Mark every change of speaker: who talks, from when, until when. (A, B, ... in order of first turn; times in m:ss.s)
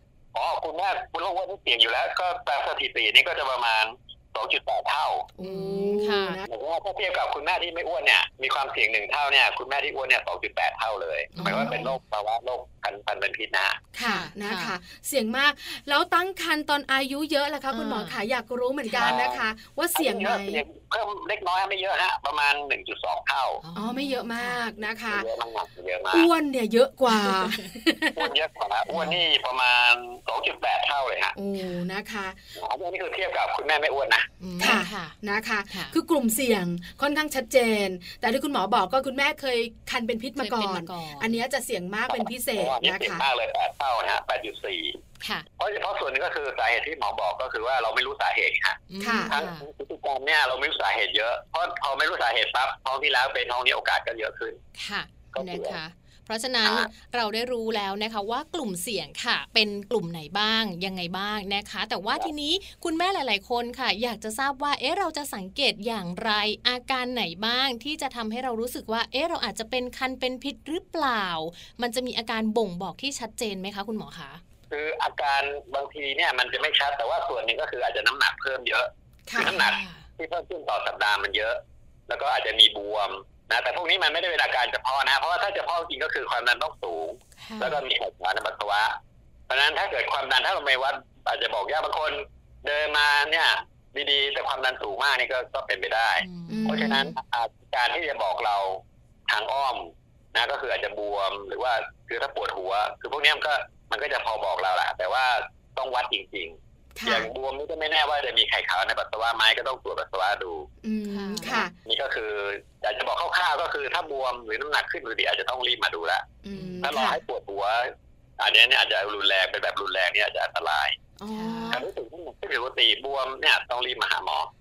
0:00.3-0:05.3 A
0:05.4-0:06.5 B
0:05.4-0:06.4 C
0:06.5-0:13.8 A
0:11.4-0:11.9 B
0:11.4-0:11.9 C
0:13.9-0:20.6 B
0:14.0-0:14.8 C
0:17.7-0:18.2 C
0:18.9-0:19.2 C
0:19.0-0:19.4 A
0:20.0-0:23.6 A
0:23.6-0:24.6 C
0:23.8-0:25.2 B
0:25.1-0:26.3 A
0:26.1-0:28.3 B
0:27.1-0:27.6 C
0:28.2-0:31.4 A
0:28.9-0:29.2 C
0:31.4-0:32.4 B
0:32.6-0:34.8 A
0:34.4-0:35.2 C
0:34.6-0:43.2 B
0:40.4-0:41.4 C
0:42.1-0:45.0 A
0:45.2-0:45.5 C
0:45.6-0:54.6 A
0:48.9-0:49.6 C
0:49.0-0:49.3 B
0:54.8-1:14.4 C
0:55.3-0:55.8 A
0:56.6-0:56.9 A
1:14.7-1:29.0 A
1:19.3-1:19.6 B
1:19.4-1:20.0 C
1:27.4-1:27.8 C
1:29.5-1:50.7 A
1:36.2-1:37.0 C
1:36.5-1:37.1 B
1:47.0-1:47.3 B
1:50.8-1:51.7 B
1:51.1-1:51.6 C
1:51.8-1:56.3 A
1:56.4-1:57.2 B
1:56.5-1:56.8 C
1:56.8-2:01.0 A
2:01.2-2:01.9 B
2:01.3-2:01.8 C
2:01.7-2:04.5 A